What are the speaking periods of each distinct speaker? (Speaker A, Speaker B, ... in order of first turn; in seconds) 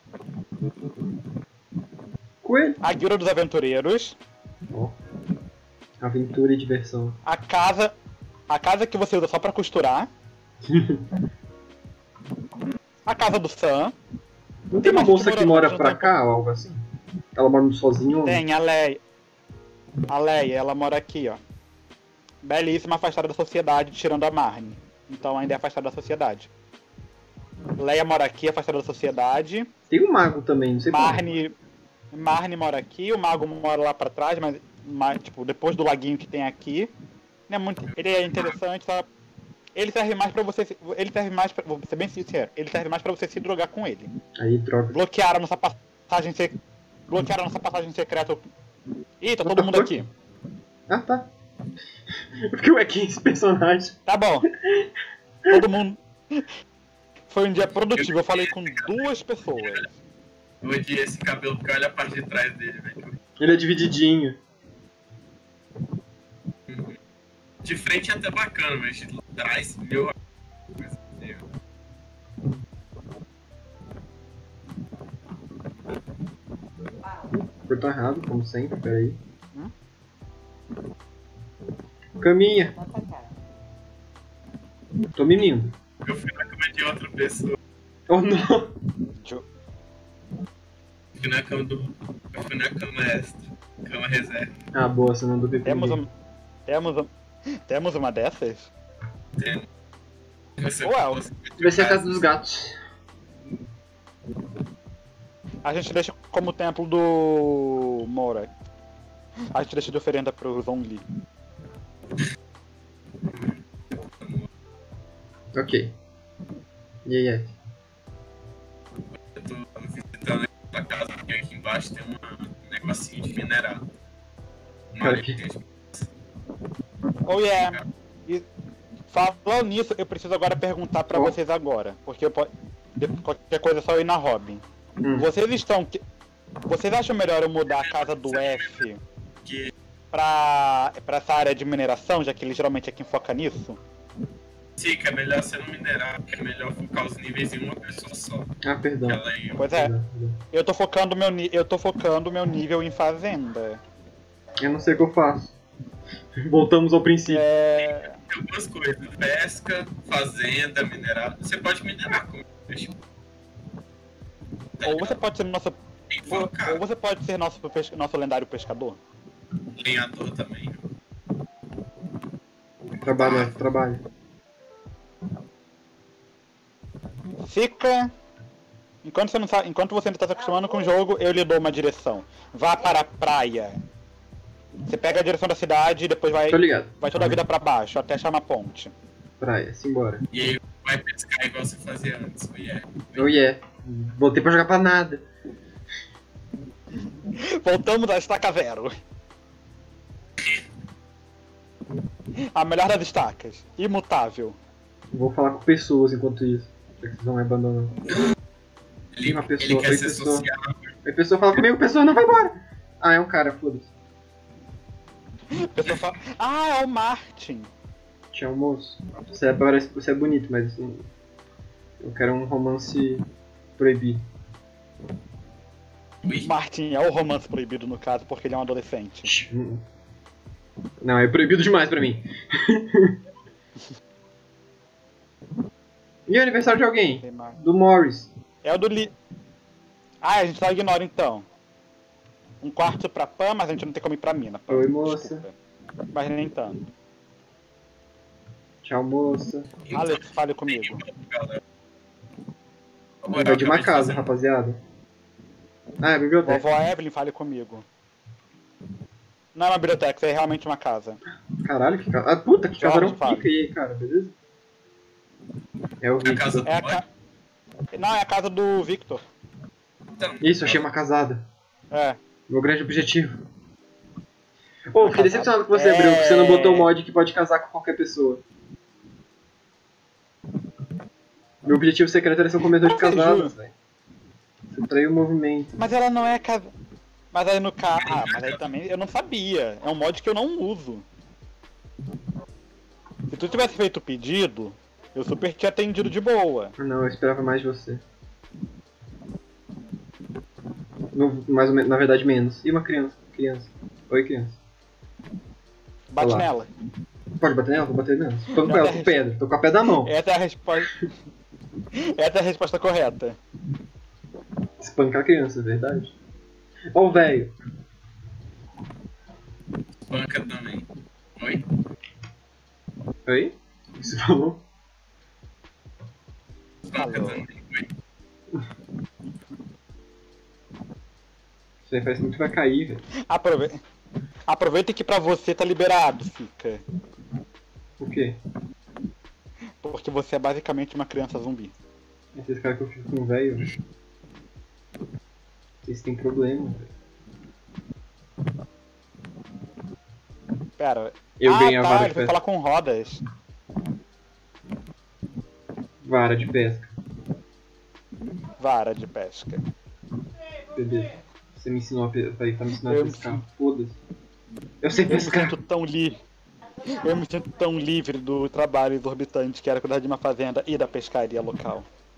Speaker A: 2.4-2.8, 4.7-5.0, 6.0-7.2, 10.7-11.0, 14.7-16.8, 17.4-18.4, 29.9-31.3, 44.4-45.0, 49.4-50.1, 50.9-51.3, 52.5-54.0, 63.4-64.4, 77.7-79.2, 82.2-82.8, 85.2-85.7, 88.1-88.8, 94.7-96.0, 101.6-102.8, 115.5-116.0, 117.0-117.6, 125.0-125.4, 135.0-135.3, 148.6-150.4, 154.6-155.6, 156.4-157.5, 173.0-174.0, 186.5-187.4, 189.4-190.3, 193.2-195.2, 205.1-208.0, 209.2-210.5, 211.1-213.9, 218.3-221.1, 222.0-223.3, 223.8-224.2, 229.2-229.8, 231.0-233.2, 236.3-238.3, 244.7-245.5, 248.8-249.7, 253.3-254.8, 256.0-256.7, 261.6-264.3, 266.0-266.7, 270.4-271.5, 272.5-273.4, 274.9-278.4, 281.6-283.7, 284.7-285.8, 296.8-298.0, 301.1-304.6, 306.2-306.5, 307.4-310.1, 314.8-316.1, 316.9-317.5, 323.3-324.6, 331.9-333.1, 338.0-338.4, 342.4-343.7, 345.8-346.9, 351.4-352.3, 356.0-356.9, 360.8-364.0, 364.8-365.6
Speaker B: 2.8-4.2, 7.2-8.0, 8.5-10.1, 13.1-13.9, 14.8-16.1, 18.2-19.0, 20.1-21.4, 22.4-26.5, 27.8-29.7, 30.9-31.6, 32.1-36.9, 37.5-39.1, 39.8-44.1, 44.9-46.6, 47.1-48.5, 49.2-50.1, 54.1-54.5, 55.5-56.5, 57.3-59.9, 82.8-83.3, 89.2-89.5, 95.7-96.1, 96.7-98.7, 100.8-101.2, 105.6-108.5, 109.5-111.0, 127.3-128.4, 129.1-134.6, 135.2-136.0, 136.7-139.0, 140.1-143.8, 149.6-149.9, 150.5-153.8, 157.3-158.2, 164.8-169.0, 177.4-178.1, 179.0-183.8, 184.9-188.9, 197.4-198.9, 202.5-204.6, 215.6-217.7, 226.4-229.3, 237.2-237.6, 238.6-239.1, 240.2-241.5, 242.6-245.5, 246.1-246.9, 249.9-251.0, 256.4-257.9, 259.6-261.2, 262.8-263.5, 266.7-267.1, 267.9-269.2, 271.9-272.2, 275.1-276.9, 282.8-283.5, 285.8-286.7, 287.3-291.1, 293.3-296.8, 306.1-306.7, 308.6-309.2, 310.0-311.0, 312.0-313.4, 327.0-327.4, 333.3-333.8, 334.5-336.8, 339.8-341.7, 350.8-353.2, 358.6-359.6, 362.9-363.4, 365.1-366.2, 367.0-371.9
Speaker C: 58.0-59.9, 60.6-63.2, 66.7-67.0, 67.6-70.2, 70.8-71.4, 86.0-87.6, 91.2-94.6, 99.4-99.7, 100.6-102.2, 114.2-114.5, 119.3-123.9, 124.9-126.1, 127.5-127.8, 137.7-138.8, 139.4-139.7, 144.8-149.7, 157.8-163.0, 164.8-165.2, 166.1-166.8, 169.8-170.8, 173.1-173.5, 190.3-193.3, 209.1-210.9, 249.8-251.6, 253.2-254.2, 266.2-267.0, 270.2-270.9, 288.0-288.6, 320.1-321.6, 326.8-327.9